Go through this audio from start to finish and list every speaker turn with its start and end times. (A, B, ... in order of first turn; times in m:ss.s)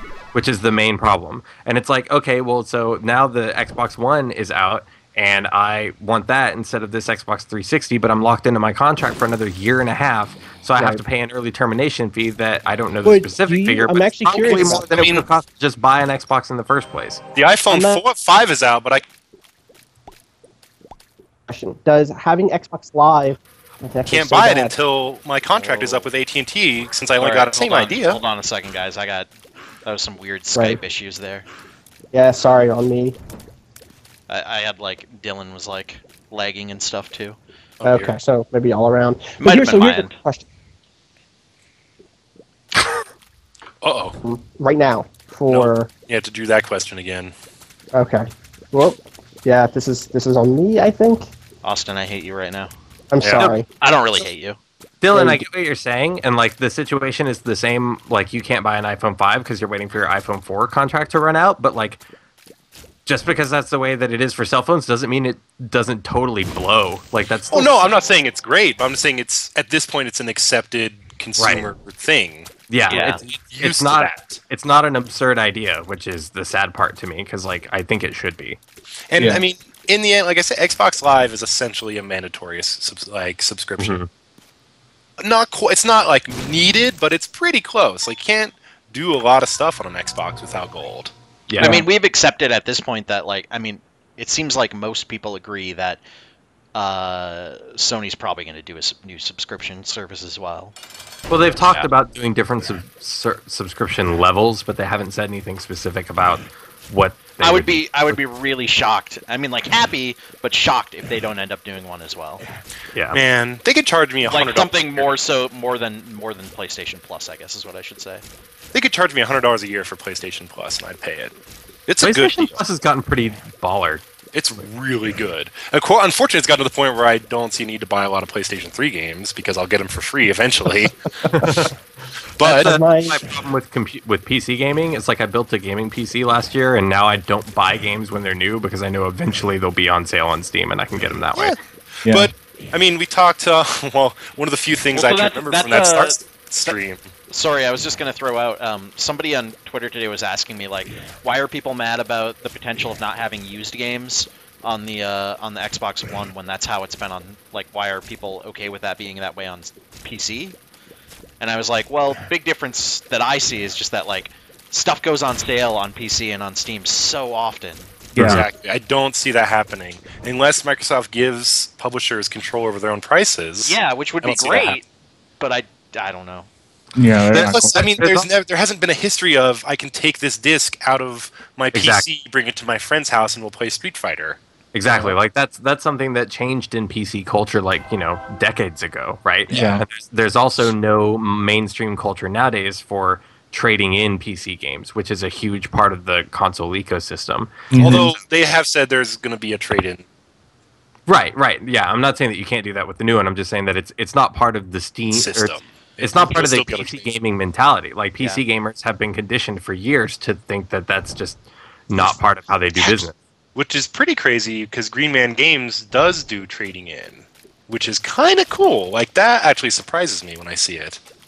0:00.3-0:17.2 A
0:10.8-0:11.0 B
0:13.0-0:14.9 B
0:14.4-0:15.2 C
0:17.3-0:19.0 C
0:17.7-0:18.0 B
0:21.5-0:24.7 B
0:24.1-0:28.2 C
0:25.5-0:26.1 D
0:27.2-0:29.3 D
0:29.8-0:31.4 D
0:30.5-0:30.8 B
0:32.1-0:33.2 B
0:34.3-0:37.4 D
0:37.8-0:38.2 C
0:37.8-0:40.4 B
0:39.4-0:40.2 D
0:43.8-0:44.2 C
0:44.2-0:45.9 B
0:45.5-0:47.3 C
0:47.9-0:51.3 B
0:51.6-0:52.7 D
0:53.1-0:53.6 B
0:53.2-0:53.5 C
0:53.4-0:54.6 D
0:55.0-1:02.0 A
0:55.1-0:55.4 B
1:03.0-1:07.8 A
1:07.5-1:14.4 C
1:11.4-1:11.7 A
1:12.7-1:18.6 A
1:12.9-1:13.2 D
1:19.1-1:24.0 C
1:19.2-1:19.4 E
1:23.8-1:24.1 A
1:25.2-1:31.1 C
1:31.5-1:31.8 A
1:31.6-1:36.0 D
1:31.6-1:31.8 B
1:36.8-1:40.8 D
1:41.3-1:48.2 A
1:41.6-1:41.9 D
1:47.4-1:52.4 D
1:52.9-1:53.2 A
1:53.1-1:55.1 C
1:54.2-1:58.2 D
1:58.7-2:01.3 C
2:01.9-2:02.6 C
2:02.0-2:04.0 A
2:04.3-2:10.9 C
2:11.3-2:11.7 A
2:12.4-2:12.8 C
2:12.4-2:13.3 B
2:12.4-2:21.6 A
2:21.3-2:27.1 C
2:22.0-2:22.3 E
2:24.9-2:26.8 D
2:27.3-2:40.6 D
2:41.4-2:48.0 D
2:48.1-2:54.8 C
2:48.2-2:48.4 E
2:53.6-2:54.8 D
2:55.4-2:56.5 D
2:57.0-2:57.9 E
2:57.3-3:05.1 C
2:57.8-2:58.3 A
3:01.7-3:02.1 A
3:04.7-3:18.2 A
3:09.5-3:09.8 E
3:17.7-3:18.1 E
3:17.8-3:20.0 C
3:21.1-3:33.2 A
3:25.1-3:27.1 C
3:33.5-3:41.0 C